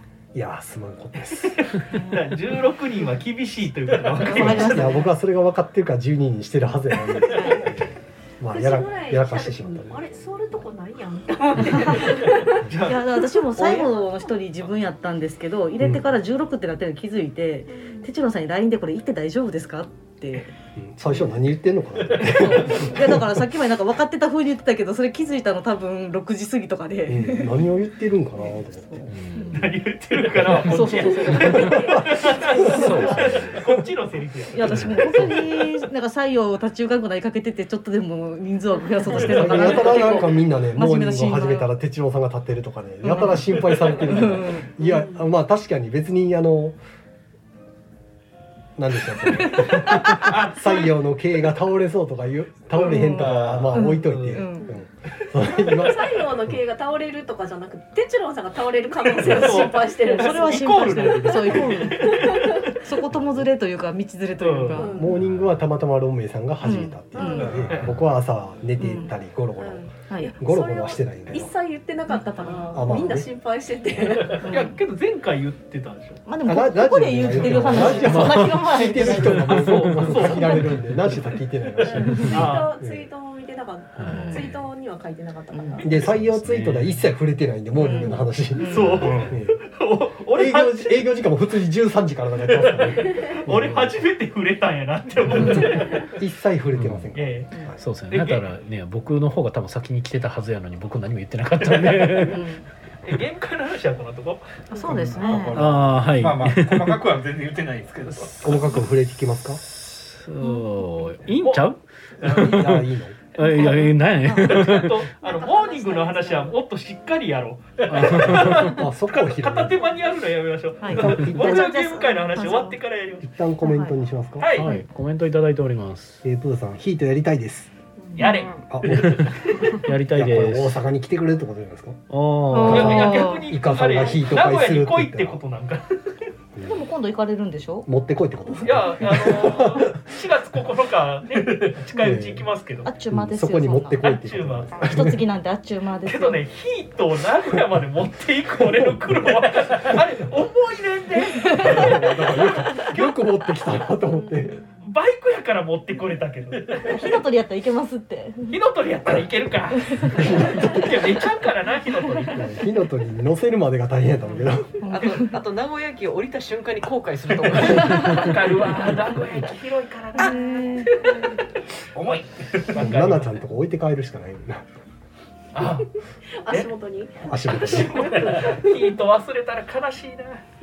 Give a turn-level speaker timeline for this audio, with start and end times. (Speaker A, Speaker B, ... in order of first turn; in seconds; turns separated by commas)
Speaker A: 0.3-1.6, Speaker B: 1.3-5.0, Speaker C: 1.9-2.3, Speaker A: 4.2-10.0, Speaker C: 4.2-5.1, Speaker B: 7.3-7.6, Speaker C: 7.3-7.7, Speaker D: 8.5-12.6, Speaker C: 11.6-12.2, Speaker B: 12.5-13.8, Speaker C: 12.8-20.5, Speaker A: 15.8-16.1, Speaker D: 17.7-18.0, Speaker A: 20.8-23.4, Speaker B: 22.2-22.9, Speaker C: 22.2-27.6, Speaker A: 27.1-29.2, Speaker C: 28.4-29.6, Speaker E: 29.1-29.7, Speaker B: 29.5-35.3, Speaker E: 30.4-33.6, Speaker C: 30.7-31.6, Speaker A: 31.3-33.4, Speaker C: 32.2-33.2, Speaker C: 34.5-41.7, Speaker E: 34.7-35.0, Speaker A: 35.1-35.5, Speaker B: 39.1-40.2, Speaker A: 39.1-46.8, Speaker C: 43.0-44.7, Speaker A: 48.8-56.6, Speaker C: 49.2-50.4, Speaker B: 50.2-50.8, Speaker C: 52.8-54.7, Speaker F: 53.2-53.8, Speaker B: 53.8-54.5, Speaker D: 55.5-62.7, Speaker B: 59.0-62.8, Speaker C: 59.2-65.1, Speaker A: 63.1-63.4, Speaker B: 64.4-64.9, Speaker D: 64.7-65.1, Speaker A: 64.9-71.5, Speaker E: 65.1-65.6, Speaker C: 66.6-67.6, Speaker D: 67.1-67.6, Speaker C: 68.8-69.1, Speaker D: 69.6-74.6, Speaker C: 70.1-70.3, Speaker C: 72.2-72.7, Speaker A: 72.7-73.3, Speaker B: 74.2-76.2, Speaker C: 74.4-74.8, Speaker C: 76.2-80.5, Speaker A: 76.4-83.1, Speaker E: 77.7-81.0, Speaker B: 79.7-80.7, Speaker D: 81.8-86.2, Speaker C: 82.0-82.4, Speaker B: 82.1-82.8, Speaker E: 84.0-84.6, Speaker C: 84.0-84.5, Speaker C: 85.5-85.8, Speaker A: 85.8-89.6, Speaker E: 85.9-87.0, Speaker C: 87.8-89.1, Speaker B: 88.5-91.1, Speaker A: 90.3-94.0, Speaker B: 92.5-96.2, Speaker D: 93.0-93.4, Speaker A: 95.3-97.8, Speaker C: 95.3-95.8, Speaker D: 95.8-96.1, Speaker E: 96.7-97.1, Speaker B: 97.1-97.5, Speaker E: 97.8-102.4, Speaker B: 98.1-98.4, Speaker B: 101.7-102.3, Speaker C: 102.2-102.6, Speaker B: 103.0-105.1, Speaker C: 104.7-105.7, Speaker A: 104.9-105.9, Speaker F: 105.4-108.6, Speaker E: 105.5-107.0, Speaker A: 108.4-109.6, Speaker E: 109.6-115.0, Speaker C: 110.4-110.9, Speaker B: 111.4-112.6, Speaker A: 112.2-113.2, Speaker C: 113.4-114.8, Speaker B: 113.5-123.3, Speaker D: 115.2-116.5, Speaker E: 117.9-118.8, Speaker A: 118.2-119.8, Speaker C: 120.8-122.8, Speaker A: 120.9-121.7, Speaker A: 123.2-124.5, Speaker C: 123.6-123.9, Speaker B: 124.4-124.7, Speaker E: 124.5-126.2, Speaker C: 124.6-124.8, Speaker A: 126.2-127.7, Speaker G: 128.0-128.7, Speaker B: 128.2-129.8, Speaker A: 128.7-132.0, Speaker E: 128.8-130.8, Speaker E: 132.1-133.2, Speaker C: 132.5-133.5, Speaker A: 132.6-135.4, Speaker B: 132.7-136.1, Speaker A: 136.5-136.8, Speaker C: 136.6-137.9, Speaker A: 137.8-140.0, Speaker C: 138.5-138.8, Speaker B: 138.6-142.9, Speaker A: 141.9-142.5, Speaker C: 142.8-144.1, Speaker A: 143.1-145.2, Speaker B: 144.0-145.0, Speaker C: 144.8-146.4, Speaker B: 146.0-153.3, Speaker C: 151.4-151.9, Speaker A: 151.6-154.6, Speaker B: 154.8-157.2, Speaker C: 156.8-158.6, Speaker B: 158.5-162.5, Speaker C: 159.8-160.9, Speaker A: 160.2-160.6, Speaker A: 162.3-164.8, Speaker C: 164.8-165.4, Speaker G: 164.9-168.3, Speaker B: 167.4-171.4, Speaker C: 167.7-168.3, Speaker C: 170.2-171.3, Speaker F: 171.9-172.3, Speaker B: 172.7-173.4, Speaker A: 172.7-174.7, Speaker B: 175.5-175.9, Speaker D: 176.4-178.8, Speaker A: 177.2-178.4, Speaker B: 177.5-180.4